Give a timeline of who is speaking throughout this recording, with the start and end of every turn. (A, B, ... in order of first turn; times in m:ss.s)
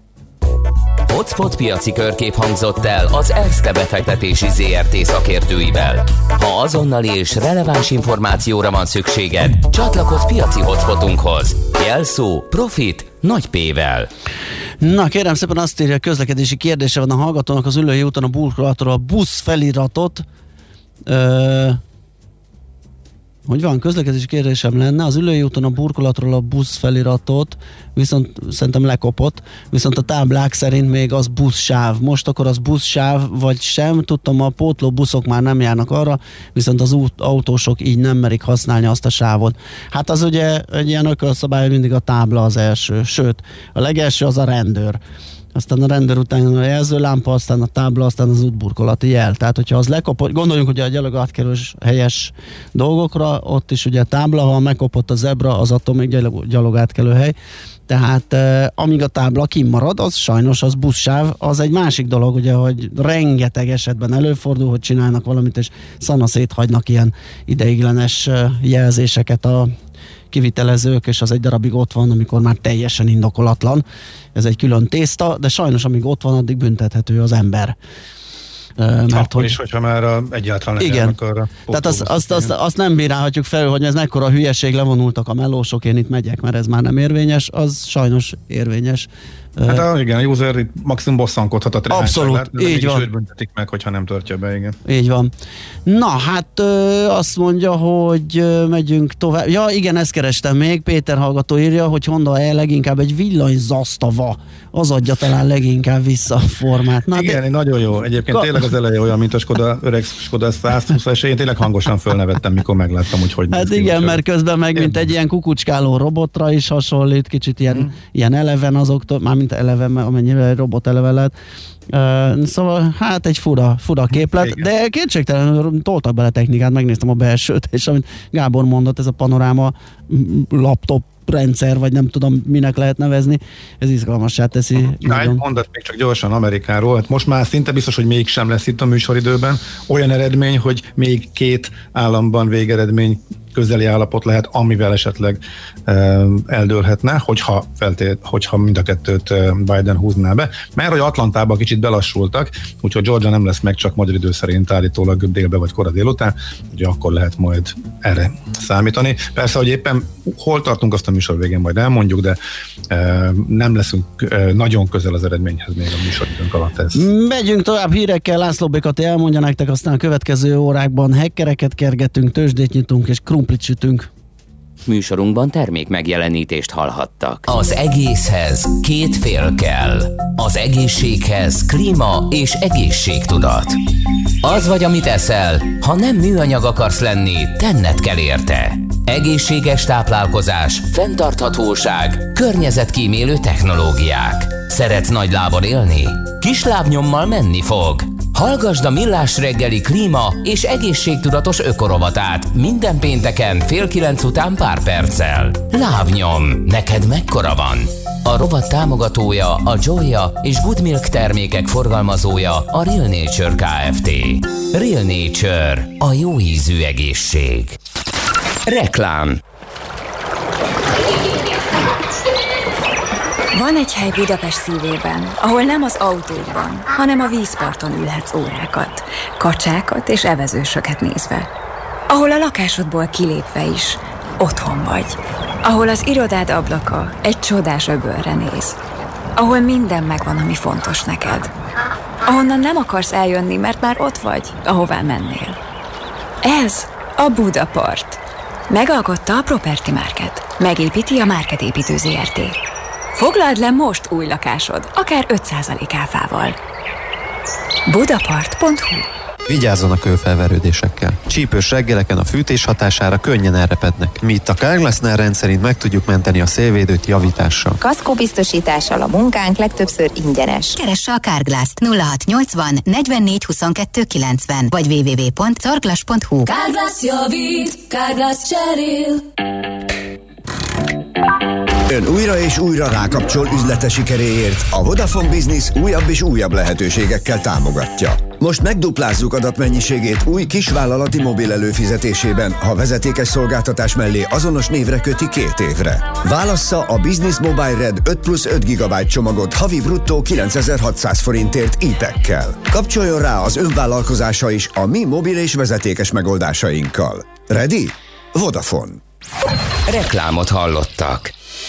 0:01.1-0:14.1 A
0:14.8-0:20.2 B
0:21.0-0:21.8 B
0:23.5-0:45.0 B
0:45.5-0:57.3 B
0:57.9-1:09.7 B
1:10.3-1:13.8 B
1:14.3-1:17.8 B
1:18.8-1:19.6 B
1:19.1-1:22.5 C
1:20.8-1:21.2 B
1:21.7-1:29.8 B
1:29.6-1:34.8 C
1:31.9-1:33.1 B
1:34.8-1:35.3 B
1:35.8-1:47.4 B
1:47.1-1:54.2 C
1:53.5-2:01.3 B
1:54.7-1:55.1 C
2:01.9-2:15.4 B
2:04.1-2:04.7 C
2:15.0-2:42.4 C
2:42.9-2:47.0 C
2:46.9-2:54.1 B
2:54.8-3:03.8 A
3:04.4-3:37.8 A
3:38.6-3:39.4 A
3:43.5-3:51.5 D
3:52.1-3:58.8 D
3:59.4-4:01.5 D
4:02.2-4:05.6 D
4:06.4-4:12.6 D
4:13.1-4:16.6 D
4:17.9-4:19.1 D
4:19.5-4:27.8 E
4:27.8-4:30.7 F
4:30.7-4:36.4 G
4:36.4-4:39.2 H
4:41.9-5:09.0 I
5:09.9-5:11.3 A